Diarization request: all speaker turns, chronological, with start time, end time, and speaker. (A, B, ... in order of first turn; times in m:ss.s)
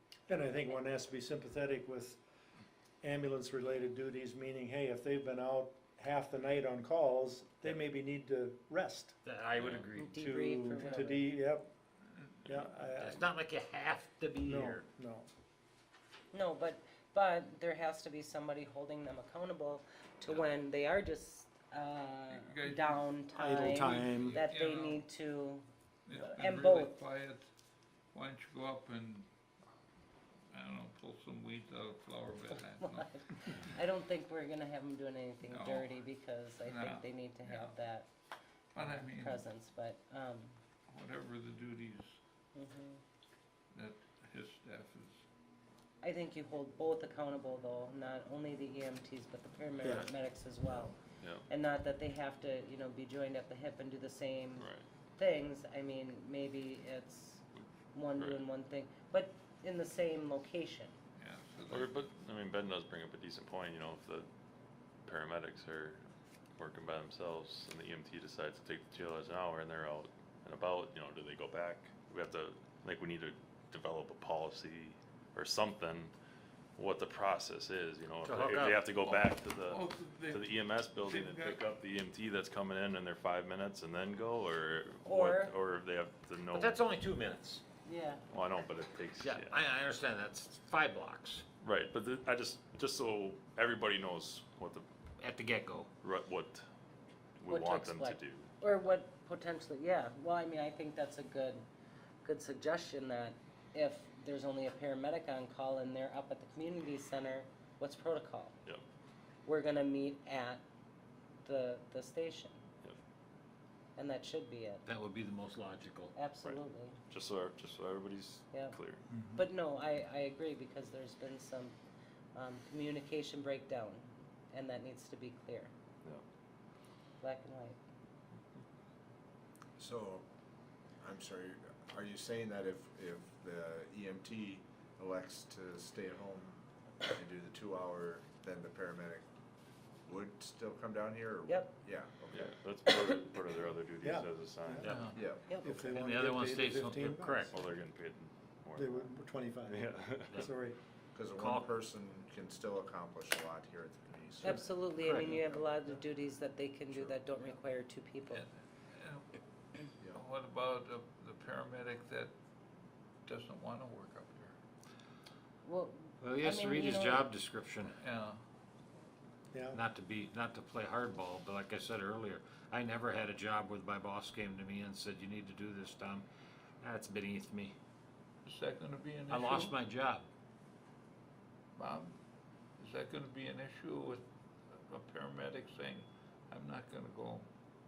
0:00.3-0:02.2 A
0:03.0-0:09.2 A
0:09.2-0:10.2 B
0:09.6-0:09.8 C
0:09.9-0:11.3 D
0:10.1-0:11.7 A
0:12.4-0:13.3 A
0:12.9-0:14.8 B
0:14.4-0:15.3 A
0:16.3-0:25.6 D
0:22.3-0:25.1 E
0:23.4-0:24.4 A
0:26.0-0:27.5 E
0:26.2-0:27.0 D
0:28.1-0:29.3 E
0:30.5-0:33.6 E
0:32.8-0:38.1 D
0:35.5-0:36.1 E
0:36.6-0:37.8 E
0:38.7-0:39.4 E
0:38.8-0:40.6 D
0:40.9-0:42.2 E
0:42.5-0:43.0 D
0:43.7-0:45.2 E
0:46.0-1:00.9 D
0:49.8-0:50.1 C
0:51.2-0:51.5 C
0:54.6-0:54.8 C
0:58.2-0:58.4 C
1:01.2-1:02.1 E
1:01.7-1:04.3 C
1:05.0-1:06.0 C
1:06.6-1:16.1 C
1:16.8-1:26.8 C
1:18.2-1:18.8 B
1:19.0-1:21.6 E
1:25.0-1:25.5 D
1:26.5-1:27.6 B
1:27.8-1:28.2 D
1:28.3-1:29.6 C
1:29.2-1:31.4 B
1:31.6-1:34.8 C
1:35.2-1:35.9 B
1:36.0-1:36.6 C
1:37.4-1:38.5 C
1:37.5-1:41.7 D
1:42.2-1:48.6 D
1:49.4-1:50.6 D
1:51.4-1:52.6 D
1:54.0-1:54.8 D
1:54.8-1:56.1 B
1:56.1-1:57.0 D
1:56.4-1:59.0 C
1:58.5-1:58.8 D
1:59.1-1:59.4 A
1:59.3-2:01.8 D
2:02.3-2:05.7 D
2:07.2-2:07.8 D
2:09.8-2:10.2 F
2:11.0-2:19.2 F
2:20.0-2:22.6 F
2:21.4-2:21.7 D
2:22.3-2:25.2 C
2:22.8-2:23.3 D
2:24.0-2:27.6 A
2:24.8-2:25.2 E
2:25.1-2:25.5 F
2:25.4-2:25.9 D
2:25.7-2:27.6 B
2:27.5-2:29.1 C
2:28.7-2:30.8 A
2:29.6-2:30.5 C
2:31.1-2:34.8 F
2:31.3-2:31.7 B
2:34.4-2:38.4 D
2:35.0-2:35.5 B
2:36.9-2:37.2 F
2:38.3-2:42.3 E
2:43.2-2:44.6 E
2:45.6-2:47.3 D
2:46.2-2:48.0 B
2:48.0-2:48.4 E
2:49.5-2:49.8 A
2:49.7-2:56.2 B
2:56.8-2:57.7 B
2:58.4-2:59.8 E
2:59.3-3:00.3 B
3:01.8-3:02.2 E
3:02.8-3:07.5 E